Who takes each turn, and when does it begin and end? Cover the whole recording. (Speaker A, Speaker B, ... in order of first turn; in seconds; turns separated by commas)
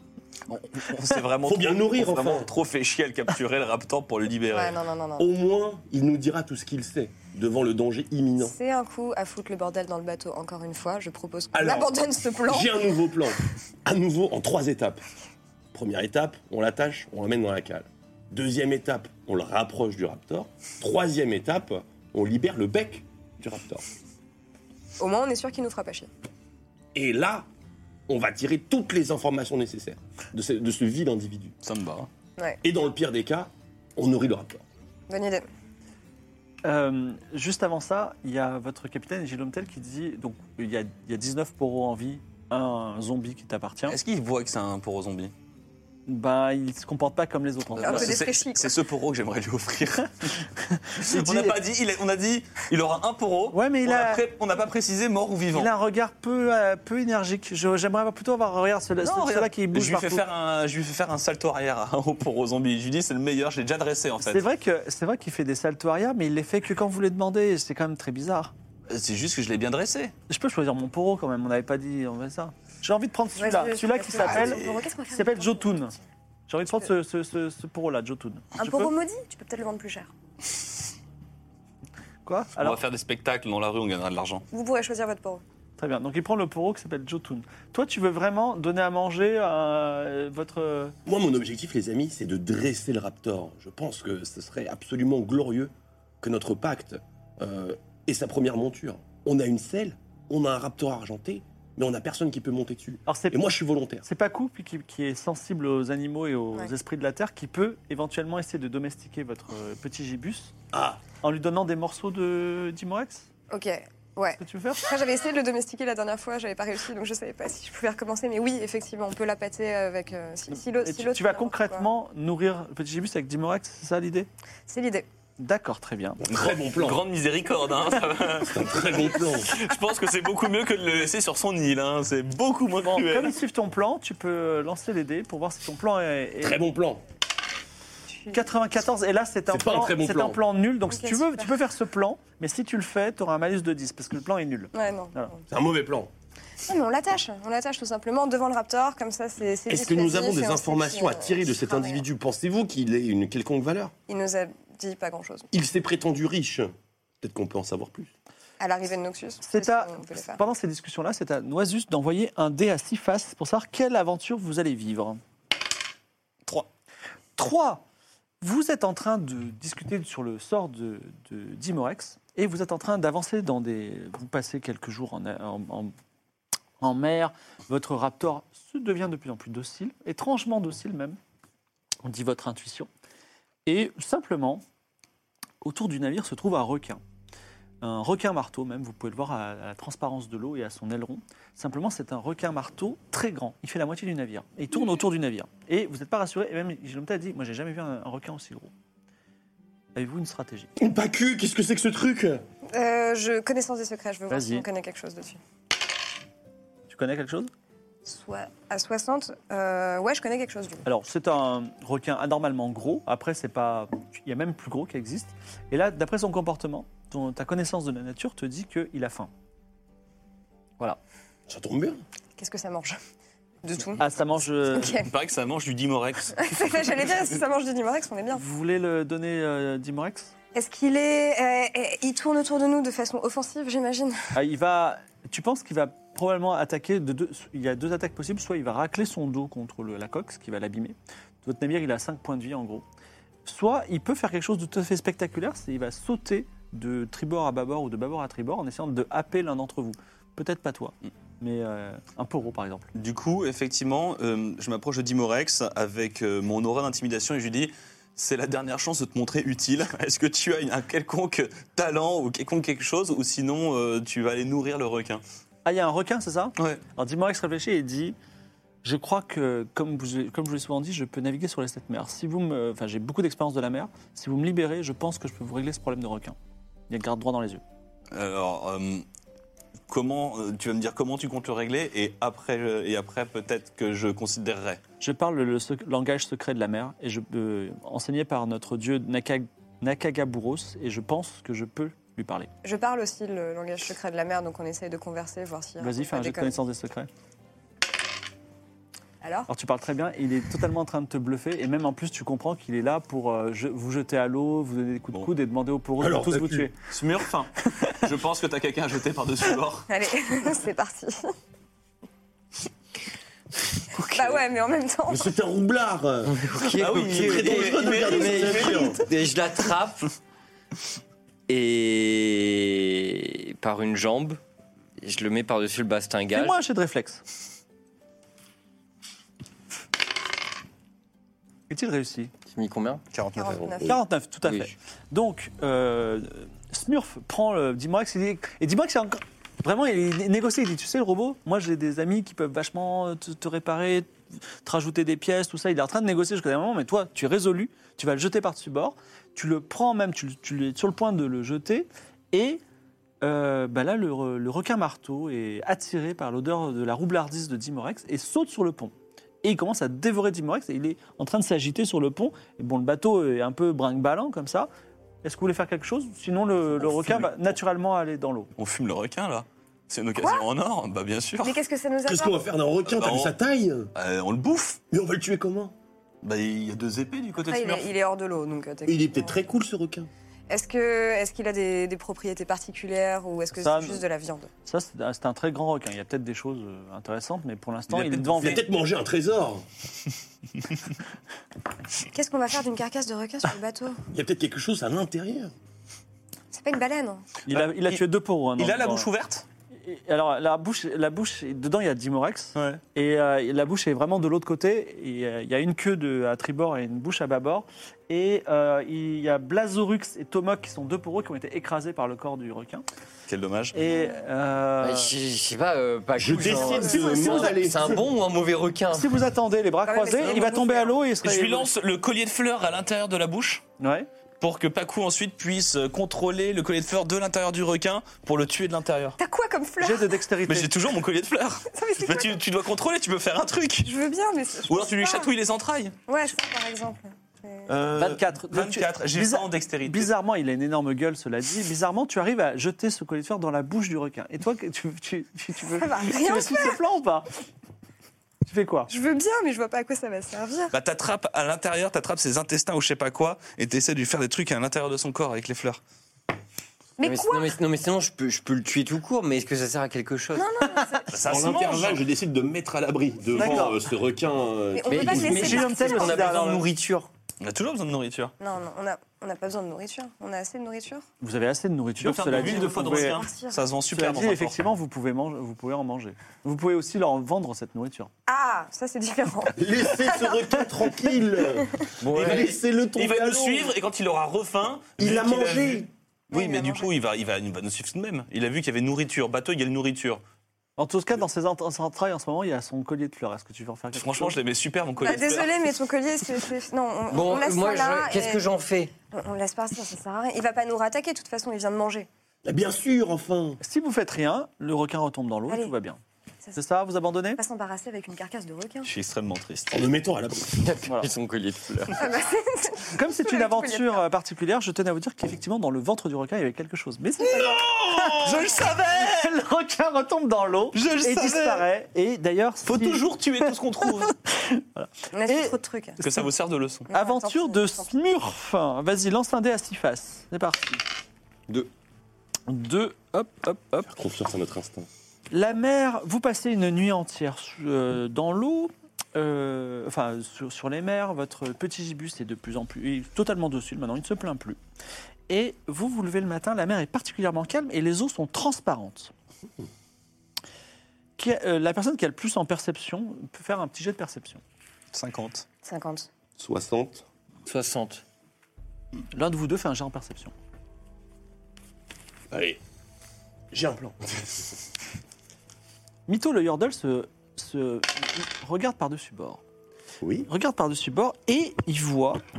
Speaker A: 0.5-4.8, Speaker B: 1.4-2.5, Speaker C: 4.5-5.3, Speaker B: 5.2-8.5, Speaker C: 8.4-12.9, Speaker B: 11.5-11.9, Speaker B: 12.4-15.0, Speaker B: 15.7-23.8, Speaker C: 25.0-26.1, Speaker B: 26.9-27.4, Speaker B: 28.1-31.6, Speaker A: 31.6-32.1, Speaker B: 32.6-34.6, Speaker C: 35.1-35.5, Speaker D: 36.6-44.0, Speaker A: 43.9-45.3, Speaker D: 46.1-48.2, Speaker A: 47.8-50.1, Speaker C: 47.8-48.8, Speaker D: 50.6-51.6, Speaker A: 51.0-55.7, Speaker D: 53.5-54.2, Speaker D: 55.5-60.2, Speaker A: 59.0-64.5, Speaker D: 64.2-68.5, Speaker A: 68.9-70.1, Speaker D: 70.3-75.9, Speaker C: 73.3-75.9, Speaker A: 74.2-74.8, Speaker D: 76.5-78.9, Speaker C: 78.6-80.1, Speaker D: 82.2-82.8, Speaker A: 82.6-84.4, Speaker C: 84.5-85.4, Speaker D: 85.8-91.0, Speaker B: 91.0-104.0, Speaker D: 103.0-103.4, Speaker D: 104.0-110.5, Speaker B: 110.7-111.0, Speaker D: 111.1-113.3, Speaker C: 113.5-121.9, Speaker D: 114.4-114.9, Speaker D: 120.5-124.3, Speaker C: 124.7-125.1, Speaker D: 125.4-126.2, Speaker B: 126.2-127.0, Speaker A: 126.3-133.3, Speaker B: 128.4-129.6, Speaker D: 132.8-136.6, Speaker B: 136.4-137.0, Speaker C: 138.1-138.4, Speaker D: 138.3-145.3, Speaker B: 139.5-140.4, Speaker C: 140.9-141.5, Speaker C: 144.7-145.4, Speaker B: 145.5-146.1, Speaker C: 146.6-152.0, Speaker B: 149.7-153.9, Speaker C: 154.1-155.5, Speaker B: 155.5-158.1, Speaker C: 158.6-160.4, Speaker D: 159.4-165.2, Speaker D: 167.4-167.8, Speaker D: 168.4-175.9, Speaker D: 176.8-181.2, Speaker D: 182.0-182.9, Speaker D: 183.7-184.6, Speaker D: 185.6-187.0, Speaker D: 187.8-198.7, Speaker D: 199.9-200.7, Speaker B: 200.8-202.4, Speaker C: 202.7-205.4, Speaker D: 204.3-204.7, Speaker D: 206.9-207.5, Speaker C: 208.0-210.8, Speaker D: 210.8-219.3, Speaker B: 221.5-222.0, Speaker C: 222.4-223.0, Speaker C: 223.6-224.1, Speaker D: 224.0-224.9, Speaker C: 224.7-225.1, Speaker A: 224.9-227.1, Speaker C: 226.3-228.4, Speaker D: 228.3-230.3, Speaker C: 230.5-234.3, Speaker D: 234.3-242.8, Speaker D: 243.4-252.9, Speaker A: 252.9-265.2, Speaker D: 265.6-268.1, Speaker D: 268.8-276.4, Speaker D: 276.9-277.6, Speaker A: 278.1-279.0, Speaker A: 279.9-284.8, Speaker D: 285.0-292.5, Speaker C: 292.6-296.6, Speaker D: 295.8-297.1, Speaker C: 299.2-299.5, Speaker D: 299.5-306.7, Speaker B: 306.0-306.7, Speaker A: 306.8-309.9, Speaker C: 309.9-311.3, Speaker C: 314.1-315.3, Speaker B: 315.1-319.0, Speaker E: 316.2-320.1, Speaker A: 316.6-319.0, Speaker E: 321.5-324.4, Speaker E: 325.0-326.6, Speaker D: 326.3-327.2, Speaker D: 331.7-332.3, Speaker E: 332.5-333.0, Speaker A: 333.1-333.7, Speaker C: 333.4-333.9, Speaker D: 333.8-352.6, Speaker E: 334.5-334.7, Speaker D: 353.2-364.7, Speaker D: 365.2-368.5, Speaker A: 366.8-367.5, Speaker A: 368.6-371.6, Speaker C: 370.2-370.4, Speaker C: 371.4-372.4, Speaker B: 372.1-373.9, Speaker A: 372.9-373.3, Speaker A: 373.9-374.8, Speaker B: 374.9-375.7, Speaker A: 376.2-377.9, Speaker C: 377.4-379.4, Speaker B: 378.9-380.1, Speaker C: 380.5-384.5, Speaker D: 383.6-384.0, Speaker D: 384.6-388.6, Speaker A: 387.9-388.6, Speaker B: 388.4-389.6, Speaker C: 392.1-394.0, Speaker B: 394.1-395.5, Speaker C: 396.5-397.3, Speaker D: 397.5-399.1, Speaker A: 397.5-398.0, Speaker A: 398.6-399.4, Speaker D: 399.8-412.8, Speaker A: 402.5-402.8, Speaker A: 413.3-413.8, Speaker D: 413.7-415.1, Speaker E: 414.8-419.1, Speaker B: 416.1-418.0, Speaker C: 416.4-417.6, Speaker D: 418.9-421.7, Speaker C: 419.9-421.0, Speaker A: 421.2-423.6, Speaker D: 423.8-424.1, Speaker A: 424.4-429.2, Speaker C: 429.2-430.2, Speaker D: 429.8-430.8, Speaker A: 430.5-433.9, Speaker C: 431.7-432.4, Speaker C: 433.8-435.3, Speaker A: 434.7-435.9, Speaker C: 436.1-437.7, Speaker A: 437.7-440.1, Speaker D: 437.9-447.3, Speaker C: 445.6-446.8, Speaker D: 448.5-448.9, Speaker C: 448.9-450.7, Speaker A: 450.7-455.8, Speaker C: 457.0-457.5, Speaker E: 457.0-460.4, Speaker C: 460.3-461.2, Speaker A: 461.1-462.1, Speaker B: 461.2-465.6, Speaker D: 463.3-463.8, Speaker C: 464.7-466.3, Speaker E: 464.9-467.1, Speaker D: 465.1-466.7, Speaker A: 467.4-468.3, Speaker C: 468.4-471.1, Speaker D: 471.2-473.2, Speaker A: 472.0-474.6, Speaker C: 472.3-473.7, Speaker D: 473.9-478.1, Speaker C: 478.3-480.9, Speaker B: 479.5-483.7, Speaker C: 481.6-481.8, Speaker E: 482.0-482.6, Speaker A: 482.0-490.2, Speaker B: 485.0-485.9, Speaker C: 486.3-486.9, Speaker D: 490.8-494.4, Speaker A: 493.9-495.7, Speaker C: 495.0-498.5, Speaker E: 497.1-498.9, Speaker C: 499.1-502.1, Speaker B: 502.4-503.6, Speaker D: 503.6-506.0, Speaker D: 506.5-507.4, Speaker C: 507.4-508.9, Speaker A: 508.8-509.9, Speaker B: 509.7-510.7, Speaker E: 510.5-512.0, Speaker C: 511.9-514.0, Speaker D: 512.9-526.3, Speaker B: 517.3-518.0, Speaker A: 518.1-519.3, Speaker A: 520.7-521.6, Speaker A: 522.6-524.1, Speaker C: 525.1-526.0, Speaker A: 526.0-526.9, Speaker C: 526.9-527.9, Speaker D: 526.9-530.8, Speaker D: 532.5-533.9, Speaker B: 533.8-534.9, Speaker D: 535.3-544.6, Speaker D: 545.3-549.1, Speaker D: 551.2-554.4, Speaker A: 554.9-555.4, Speaker C: 555.6-556.1, Speaker B: 556.4-557.0, Speaker E: 557.5-558.0, Speaker D: 559.1-560.3, Speaker B: 562.3-562.6, Speaker B: 563.5-564.4, Speaker D: 566.1-569.4, Speaker B: 570.0-570.3, Speaker D: 570.3-572.2